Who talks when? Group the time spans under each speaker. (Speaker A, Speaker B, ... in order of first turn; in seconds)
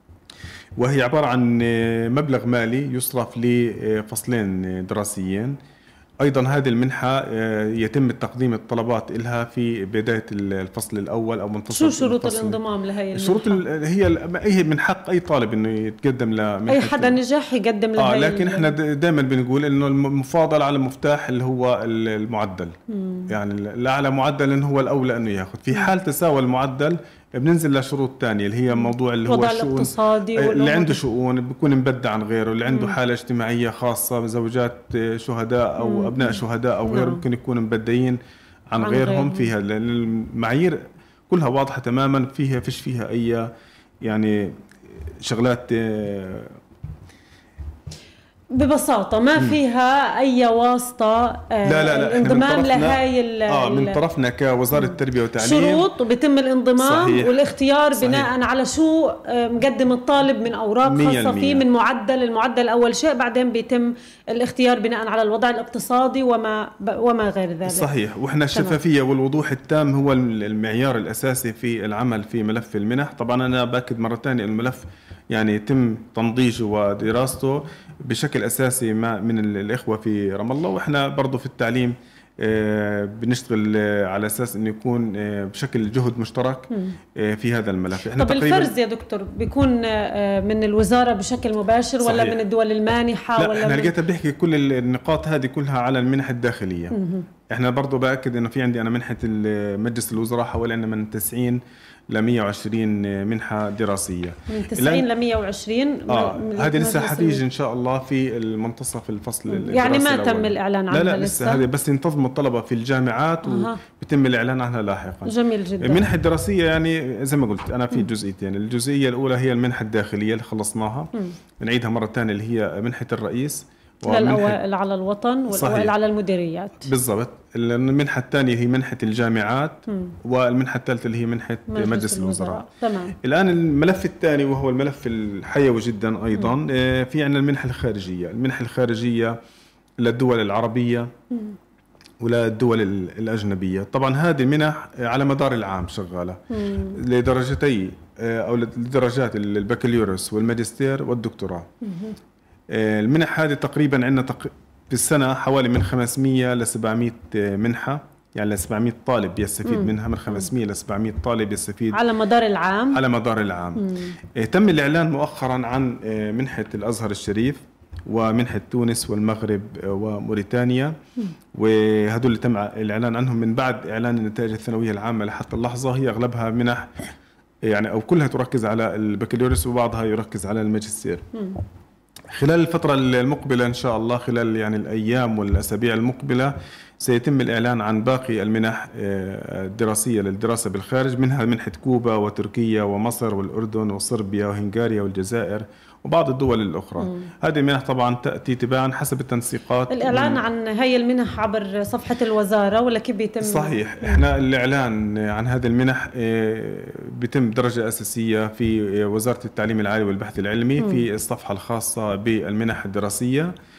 Speaker A: 0.8-5.6, 6.2-12.6, 13.1-17.2, 18.0-22.8, 23.3-38.2, 38.7-43.5, 44.0-44.5, 45.2-46.5, 51.6-55.9, 56.8-57.4, 57.9-58.3, 60.8-61.6, 67.7-88.7, 92.0-92.4, 93.3-97.0, 97.5-105.0, 106.1-124.6, 125.5-125.9, 126.8-132.6, 133.2-139.4, 140.0-141.1, 142.2-151.7, 152.7-162.0, 162.9-171.0, 171.5-177.1, 177.6-181.2, 182.3-200.4, 203.4-213.5
Speaker B: 11.7-13.6, 16.7-18.7, 22.9-23.3, 28.7-31.0, 32.7-33.0, 35.8-37.2, 38.8-39.5, 48.5-54.0, 55.4-67.9, 88.2-93.9, 96.9-97.2, 104.5-107.4, 109.5-111.6, 113.4-113.8, 115.2-116.1, 124.1-126.9, 131.7-133.1, 146.6-146.9, 151.8-152.2, 161.9-163.0, 163.8-164.1, 197.0-197.2, 199.9-204.2